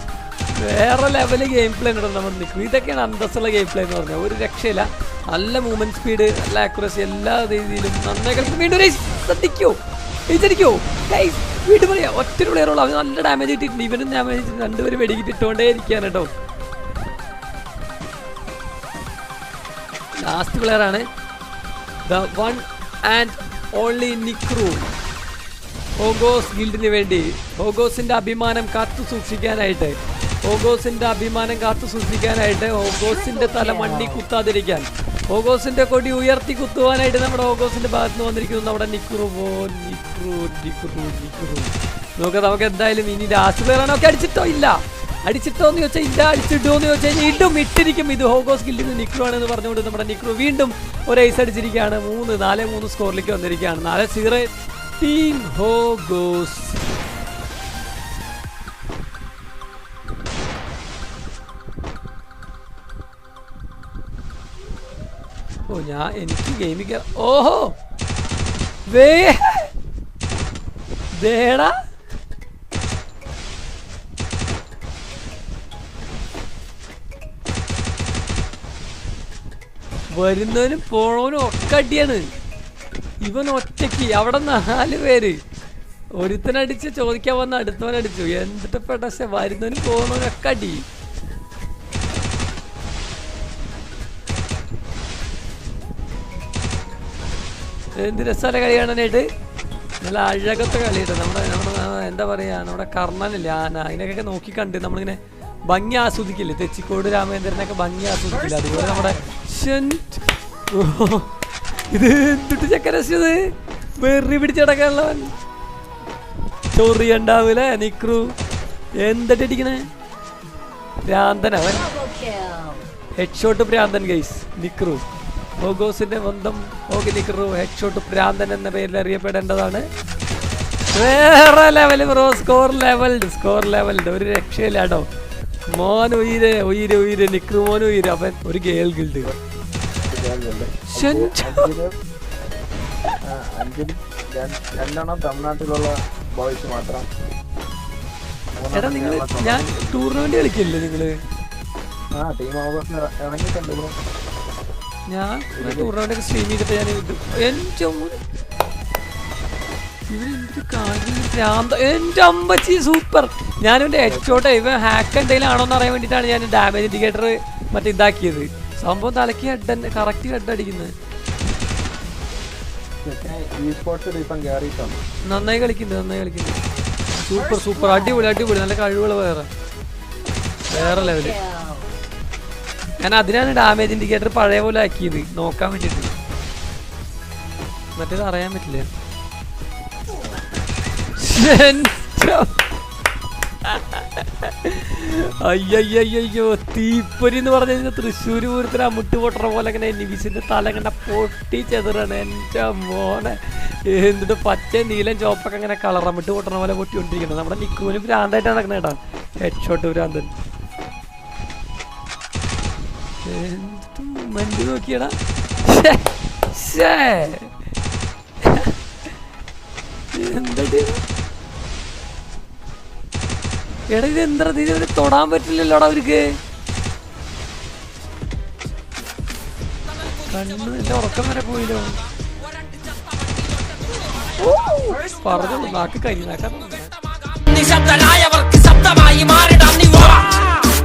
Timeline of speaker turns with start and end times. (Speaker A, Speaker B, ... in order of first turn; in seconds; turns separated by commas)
Speaker A: 0.5-16.3, Speaker A: 20.2-21.1, Speaker A: 22.0-24.9, Speaker A: 26.0-56.8, Speaker B: 33.0-34.2, Speaker A: 65.7-67.8, Speaker A: 68.8-69.7, Speaker A: 71.2-71.8, Speaker A: 80.1-82.3, Speaker A: 83.2-85.4, Speaker A: 86.2-90.8, Speaker A: 98.0-99.3, Speaker A: 100.0-111.3, Speaker B: 108.3-109.4, Speaker A: 111.9-115.3, Speaker A: 116.7-118.3, Speaker A: 119.0-119.8, Speaker A: 121.0-121.8, Speaker B: 121.7-122.9, Speaker A: 123.1-125.0, Speaker A: 125.5-129.9, Speaker A: 130.9-135.1, Speaker A: 135.7-139.3, Speaker C: 140.1-141.9, Speaker A: 140.9-141.7, Speaker C: 143.2-147.1, Speaker C: 148.5-150.2, Speaker A: 148.7-151.2, Speaker C: 152.2-153.9, Speaker A: 155.1-158.2, Speaker C: 155.6-155.9, Speaker A: 160.1-170.9, Speaker C: 164.0-164.4, Speaker C: 173.0-175.0, Speaker A: 175.2-176.6, Speaker A: 177.2-179.5, Speaker B: 177.3-178.5, Speaker A: 180.7-181.4, Speaker B: 180.7-181.9, Speaker A: 183.0-186.1, Speaker A: 187.9-188.9, Speaker A: 191.1-192.5, Speaker A: 193.6-210.3, Speaker A: 213.2-217.5, Speaker A: 218.4-218.8, Speaker A: 220.1-221.0, Speaker A: 223.9-226.4, Speaker A: 230.2-232.0, Speaker D: 232.5-234.3, Speaker A: 234.5-237.1, Speaker B: 234.7-235.8, Speaker D: 237.2-240.6